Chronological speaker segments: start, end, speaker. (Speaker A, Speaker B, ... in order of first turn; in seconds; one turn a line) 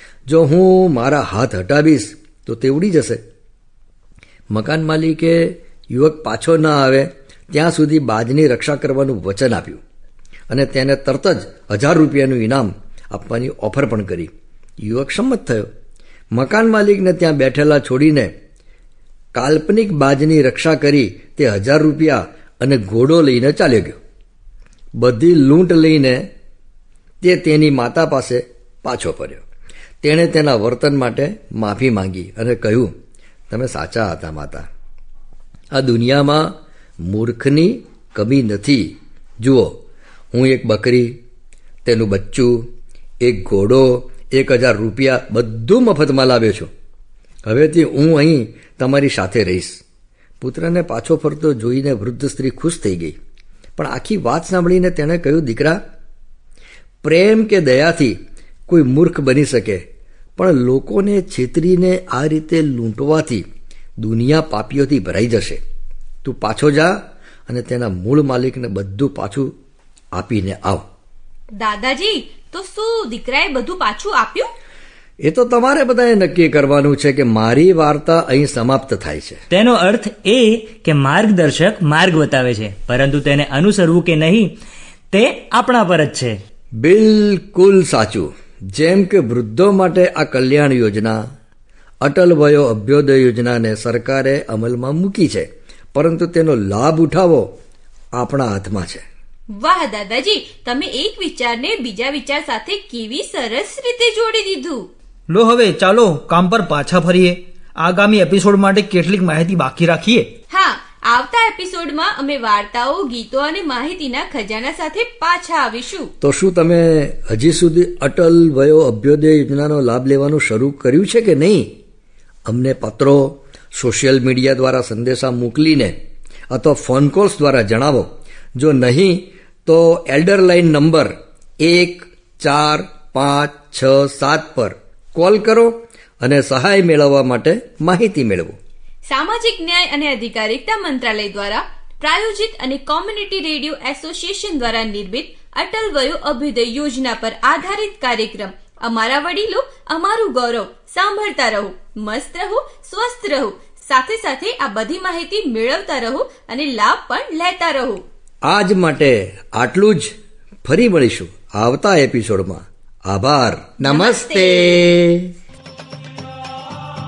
Speaker A: 0.3-3.2
Speaker A: 4.5-9.8
Speaker A: 10.5-14.3
Speaker A: 14.8-15.7
Speaker A: 16.3-18.3
Speaker A: 19.3-24.0
Speaker A: 25.0-26.2
Speaker A: 27.2-29.4
Speaker A: 30.0-32.9
Speaker A: 33.5-34.6
Speaker A: 35.7-39.8
Speaker A: 40.3-41.1
Speaker A: 41.8-42.6
Speaker A: 43.2-46.7
Speaker A: 47.5-49.8
Speaker A: 50.4-53.1
Speaker A: 53.8-55.8
Speaker A: 57.0-58.2
Speaker A: 58.7-59.8
Speaker A: 60.4-63.5
Speaker A: 64.0-65.6
Speaker A: 66.2-69.5
Speaker A: 70.1-70.8
Speaker B: 71.6-74.5
Speaker A: 75.2-79.4
Speaker C: 79.5-84.5
Speaker C: 85.1-86.4
Speaker A: 86.8-91.2
Speaker A: 92.0-97.5
Speaker A: 98.2-99.0
Speaker B: 99.6-104.9
Speaker D: 105.3-110.3
Speaker B: 110.5-116.1
Speaker A: 116.2-121.7
Speaker A: 122.5-125.9
Speaker A: 126.5-138.6
Speaker B: 139.1-158.0
Speaker A: 158.4-165.3
Speaker B: 163.8-164.8